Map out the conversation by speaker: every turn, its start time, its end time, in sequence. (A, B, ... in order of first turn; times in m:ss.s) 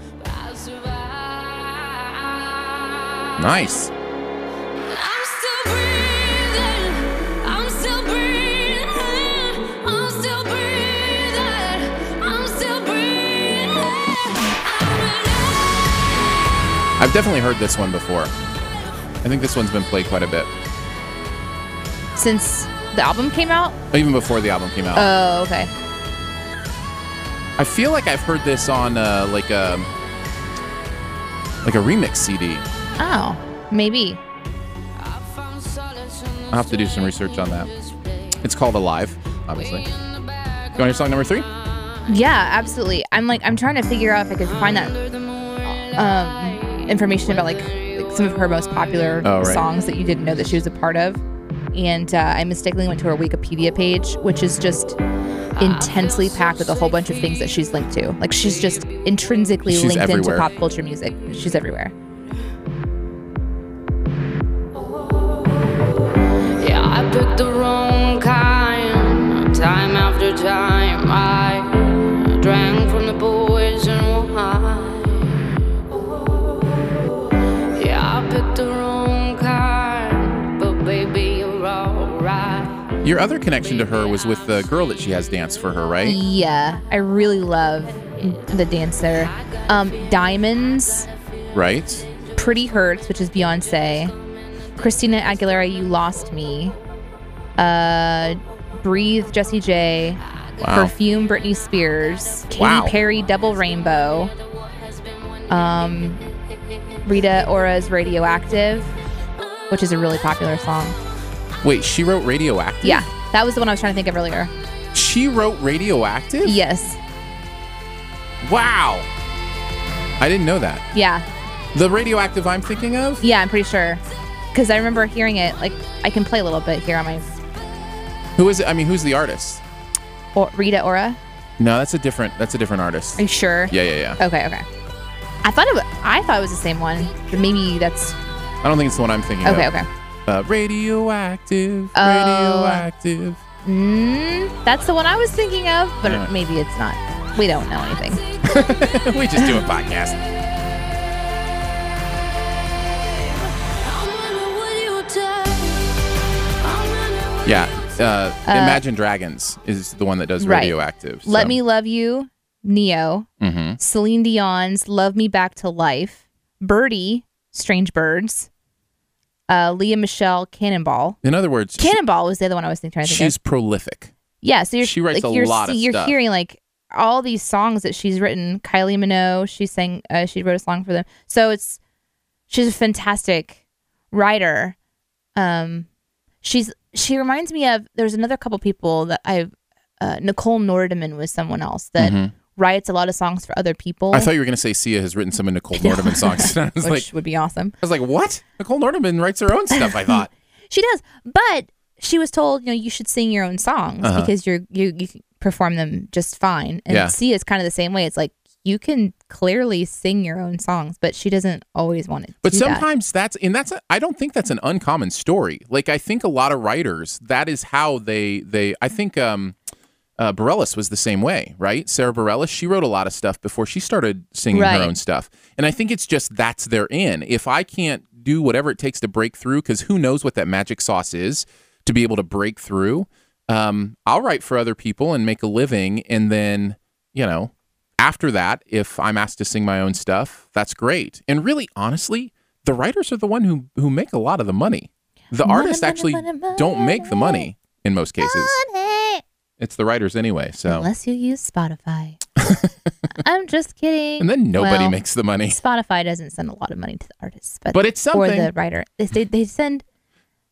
0:00.2-0:03.3 A
0:03.4-0:03.9 B
0:04.8-0:15.8 A
0:17.0-0:18.3 B
0:19.2-0:20.5 B
0:22.2-0:23.8 C
0:23.9-0:25.1 B
0:25.0-0:25.7 C
0:27.6-0:29.9 B
0:31.6-0:32.6 B
0:33.0-0:34.2 C
0:35.0-0:38.4 A
0:36.5-0:37.7 B
0:38.4-0:39.9 B
0:39.7-0:40.8 A
0:40.8-0:41.5 B
0:42.1-0:45.0 C
0:44.6-0:46.0 A
0:45.7-0:51.2 C
0:46.5-0:48.0 A
0:49.2-0:49.6 B
0:51.7-0:55.0 C
0:55.6-0:57.5 A
0:55.6-1:01.9 C
0:59.7-1:00.5 B
1:06.6-1:15.6 A
1:16.1-1:16.7 A
1:17.8-1:22.9 A
1:23.0-1:26.2 B
1:26.0-1:31.1 C
1:29.5-1:30.0 A
1:31.5-1:32.0 B
1:32.4-1:34.1 C
1:34.8-1:36.8 C
1:37.6-1:40.2 C
1:40.6-1:40.9 B
1:40.7-1:44.3 C
1:42.6-1:43.0 B
1:44.8-1:45.4 A
1:45.5-1:46.2 C
1:47.1-1:48.9 C
1:49.7-1:51.0 C
1:51.6-1:53.1 B
1:52.8-1:54.5 C
1:54.9-1:56.6 B
1:56.4-1:57.0 C
1:58.4-1:59.1 B
2:00.2-2:00.8 B
2:00.9-2:01.2 C
2:01.7-2:03.2 B
2:03.2-2:04.0 C
2:04.5-2:07.3 C
2:08.4-2:09.6 B
2:10.4-2:11.2 C
2:11.6-2:14.2 B
2:13.2-2:14.6 C
2:15.4-2:18.2 C
2:18.6-2:19.7 B
2:19.4-2:19.9 C
2:20.3-2:23.4 B
2:22.0-2:22.8 C
2:23.6-2:28.3 C
2:26.0-2:26.3 B
2:28.4-2:30.2 B
2:33.6-2:36.0 A
2:36.6-2:37.9 A
2:37.4-2:41.6 B
2:38.5-2:38.8 C
2:40.4-2:43.3 C
2:43.4-2:43.8 B
2:43.8-2:48.5 C
2:49.5-2:51.2 C
2:51.2-2:52.0 B
2:51.8-2:53.3 C
2:53.0-2:54.1 B
2:54.4-3:01.8 C
2:54.8-2:56.2 B
3:02.5-3:03.6 C
3:04.1-3:04.8 C
3:05.4-3:05.9 C
3:06.4-3:14.3 C
3:12.0-3:12.3 B
3:14.1-3:17.1 B
3:15.8-3:17.7 C
3:17.8-3:20.3 B
3:19.8-3:20.1 C
3:20.7-3:32.8 C
3:24.0-3:24.3 B
3:26.9-3:27.2 B
3:32.4-3:39.6 B
3:40.2-4:08.6 B
3:44.5-3:44.9 C
4:05.4-4:07.5 C
4:08.2-4:09.2 C
4:09.6-4:10.9 B
4:10.7-4:12.2 C
4:12.4-4:12.9 B
4:13.2-4:19.8 C
4:14.2-4:15.6 B
4:17.7-4:18.5 B